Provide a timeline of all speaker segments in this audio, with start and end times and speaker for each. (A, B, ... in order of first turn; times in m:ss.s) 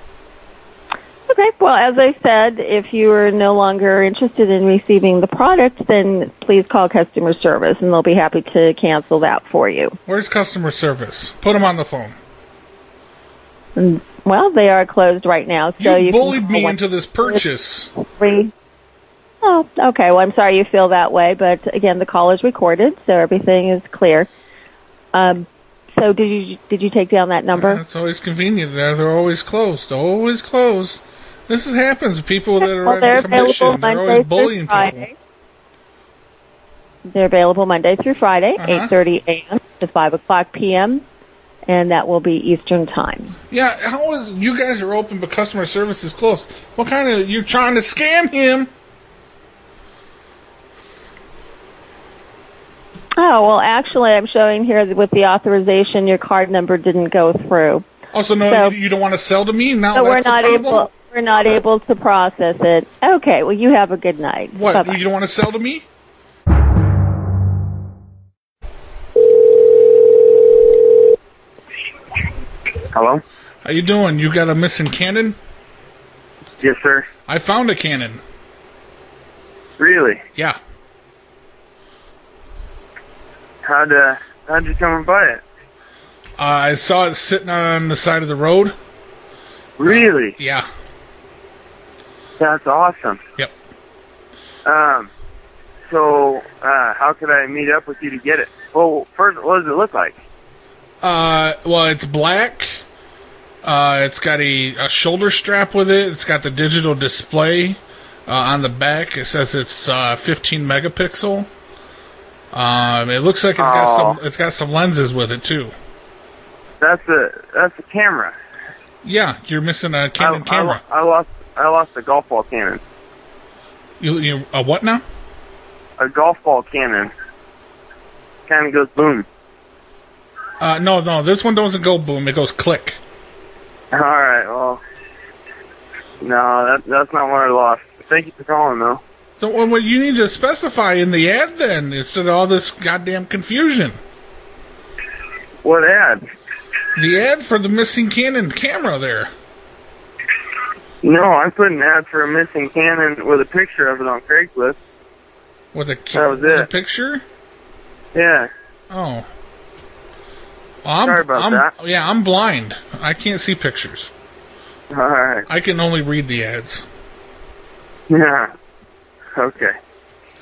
0:01.3-0:10.0 A
0:10.0-0:12.2 B
0:13.8-0:17.4 A
0:15.8-0:17.9 B
0:18.0-0:18.5 A
0:19.4-0:24.3 A
0:25.1-0:27.8 A
0:27.5-0:35.1 B
0:32.6-0:35.1 A
0:37.1-0:41.0 A
0:38.6-0:38.9 B
0:41.7-0:43.3 A
0:43.5-0:48.7 B
0:53.2-0:57.8 A
0:58.1-1:00.9 B
0:58.5-0:58.7 A
0:59.9-1:05.0 A
1:04.5-1:05.8 B
1:12.9-1:13.2 C
1:13.6-1:15.4 B
1:16.6-1:17.1 C
1:17.3-1:18.2 B
1:19.8-1:20.2 C
1:23.6-1:25.4 C
1:26.4-1:28.8 B
1:29.8-1:30.4 C
1:29.8-1:30.7 B
1:32.4-1:33.2 C
1:34.6-1:35.1 C
1:35.9-1:40.1 C
1:41.0-1:42.8 B
1:43.6-1:51.5 B
1:52.5-1:55.7 B
1:53.6-1:54.2 C
1:56.8-1:58.3 C
1:59.0-2:00.8 B
2:00.2-2:02.8 C
2:04.0-2:05.0 B
2:06.0-2:07.1 C
2:08.5-2:09.2 C
2:10.6-2:13.0 B
2:13.9-2:14.8 C
2:16.2-2:19.0 C
2:19.4-2:24.0 B
2:25.6-2:26.2 C
2:27.0-2:29.3 B
2:31.0-2:34.8 C
2:35.7-2:37.2 B
2:36.1-2:36.7 C
2:38.1-2:38.5 C
2:38.9-2:39.3 B
2:40.8-2:44.1 B
2:41.0-2:41.7 C
2:44.9-2:45.4 C
2:45.5-2:46.8 B
2:48.1-2:48.5 C
2:49.3-2:49.8 C